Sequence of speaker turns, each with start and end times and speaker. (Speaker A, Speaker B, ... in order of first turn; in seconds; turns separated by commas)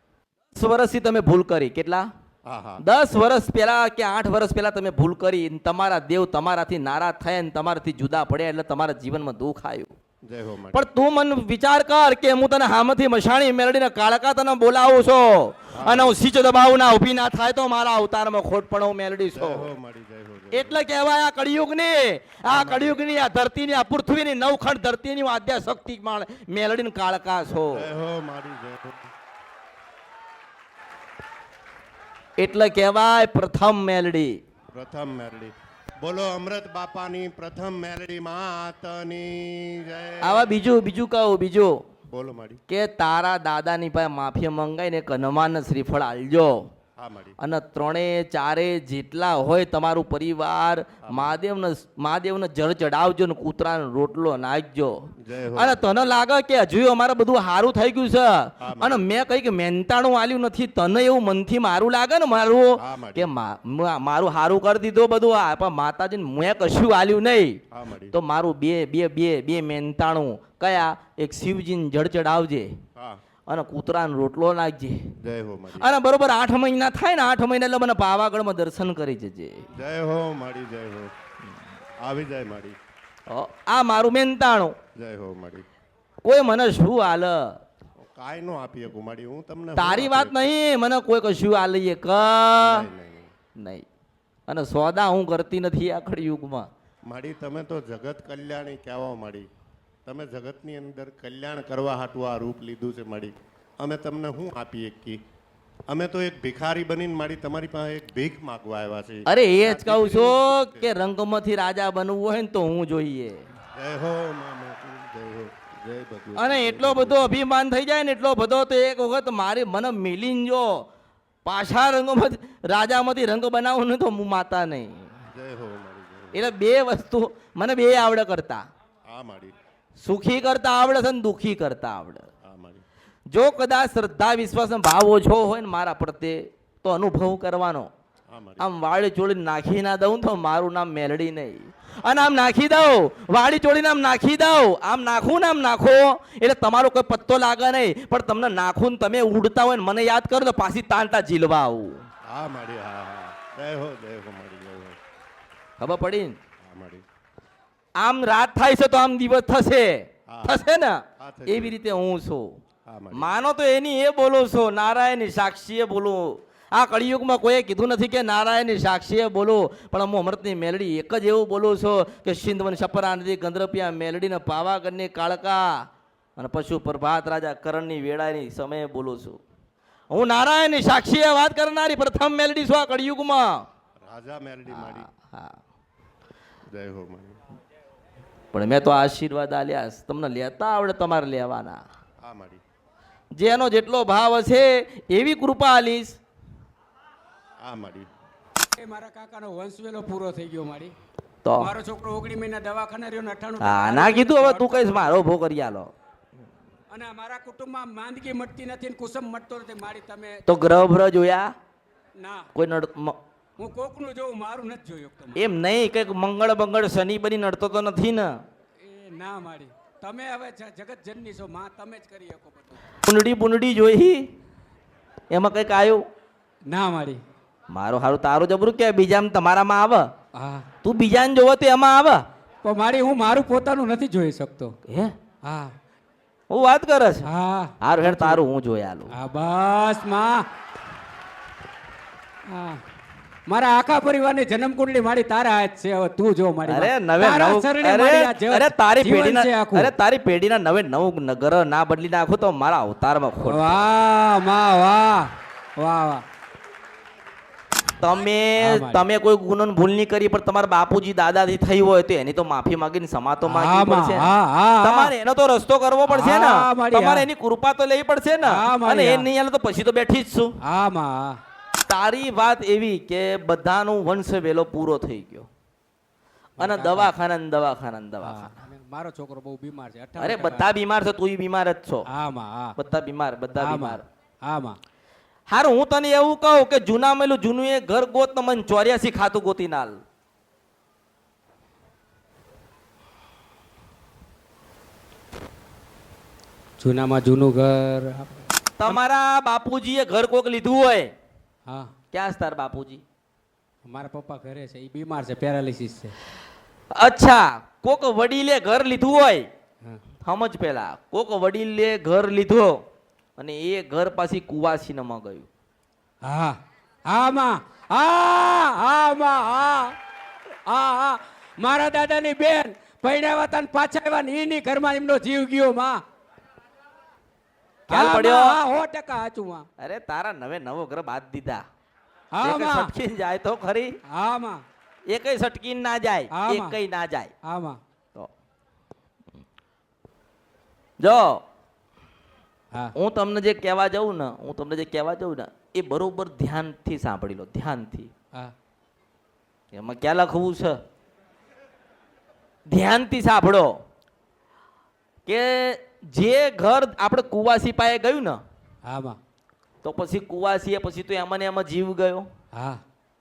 Speaker A: 0.5-2.1, Speaker B: 2.5-2.8, Speaker A: 2.8-9.9, Speaker B: 10.2-10.8, Speaker A: 10.7-19.7, Speaker B: 15.8-16.2, Speaker B: 19.3-20.8, Speaker A: 20.5-27.9, Speaker B: 22.5-23.0, Speaker B: 27.7-29.0, Speaker A: 32.4-34.4, Speaker B: 34.7-40.6, Speaker A: 40.2-41.8, Speaker B: 42.1-42.6, Speaker A: 42.7-46.7, Speaker B: 47.0-47.4, Speaker A: 47.4-67.6, Speaker B: 51.1-51.4, Speaker B: 55.2-55.9, Speaker B: 58.6-59.0, Speaker B: 62.8-63.3, Speaker B: 67.7-68.2, Speaker A: 68.1-72.7, Speaker A: 73.5-75.1, Speaker B: 75.2-75.9, Speaker A: 75.8-79.7, Speaker B: 79.8-81.1, Speaker B: 82.0-82.8, Speaker A: 83.3-84.8, Speaker B: 84.9-85.7, Speaker A: 86.2-87.6, Speaker B: 88.0-90.5, Speaker A: 89.8-92.9, Speaker B: 92.6-93.3, Speaker A: 93.5-93.9, Speaker A: 94.5-96.7, Speaker B: 97.1-99.5, Speaker B: 100.1-105.2, Speaker B: 105.9-110.9, Speaker A: 109.3-113.4, Speaker B: 113.8-117.4, Speaker A: 116.4-120.8, Speaker A: 121.4-125.1, Speaker B: 125.3-126.4, Speaker A: 126.3-128.6, Speaker B: 129.1-129.6, Speaker A: 130.0-132.3, Speaker B: 132.4-132.8, Speaker A: 133.3-137.9, Speaker B: 138.3-138.7, Speaker A: 138.6-152.1, Speaker B: 152.3-154.9, Speaker A: 155.8-156.4, Speaker B: 156.6-157.0, Speaker A: 158.0-162.6, Speaker B: 160.3-160.6, Speaker B: 161.2-161.8, Speaker B: 162.9-163.3, Speaker A: 163.1-179.4, Speaker A: 180.1-183.6, Speaker B: 184.0-185.1, Speaker A: 184.7-185.6, Speaker B: 186.7-187.4, Speaker A: 188.5-191.8, Speaker B: 192.2-192.6, Speaker A: 193.4-196.2, Speaker B: 197.6-198.1, Speaker C: 198.7-200.9, Speaker A: 201.4-201.7, Speaker C: 201.6-205.0, Speaker A: 203.6-205.9, Speaker C: 206.9-210.4, Speaker A: 210.5-211.5, Speaker C: 212.2-212.5, Speaker A: 212.6-213.2, Speaker C: 213.6-215.4, Speaker A: 215.3-218.4, Speaker C: 218.8-222.8, Speaker A: 223.1-224.3, Speaker A: 225.3-226.0, Speaker C: 226.7-227.2, Speaker A: 227.7-230.1, Speaker C: 230.3-230.7, Speaker A: 230.8-232.2, Speaker C: 232.6-234.8, Speaker A: 234.9-235.1, Speaker C: 235.4-235.8, Speaker A: 236.5-237.3, Speaker C: 237.2-238.4, Speaker A: 237.8-239.1, Speaker C: 239.1-240.4, Speaker C: 242.5-242.8, Speaker C: 243.5-249.9, Speaker A: 246.6-253.9, Speaker C: 253.4-256.2, Speaker A: 258.0-264.3, Speaker C: 258.6-259.0, Speaker C: 263.4-265.1, Speaker A: 264.8-270.6, Speaker C: 266.1-267.2, Speaker C: 268.4-269.3, Speaker C: 270.6-271.4, Speaker A: 271.9-275.5, Speaker C: 276.6-277.1, Speaker A: 276.6-278.6, Speaker C: 278.2-280.7, Speaker A: 280.2-282.1, Speaker C: 282.1-282.8, Speaker A: 282.8-284.0, Speaker C: 283.6-284.8, Speaker A: 285.5-290.0, Speaker C: 296.8-299.0, Speaker A: 298.8-301.1, Speaker A: 302.1-303.0, Speaker C: 303.9-306.1, Speaker A: 306.9-309.5, Speaker A: 310.2-312.8, Speaker A: 313.4-315.5, Speaker C: 316.2-319.9, Speaker C: 320.7-326.0, Speaker C: 327.9-329.6, Speaker A: 327.9-328.6, Speaker A: 329.8-331.6, Speaker C: 332.3-332.9, Speaker A: 332.4-334.0, Speaker C: 334.1-334.6, Speaker A: 335.1-337.3, Speaker C: 336.3-336.8, Speaker C: 337.4-337.8, Speaker A: 341.0-341.4, Speaker A: 342.9-348.1, Speaker A: 349.7-350.8, Speaker A: 352.7-353.8, Speaker A: 355.3-358.4, Speaker C: 358.9-359.2, Speaker A: 359.8-362.3, Speaker C: 362.6-362.8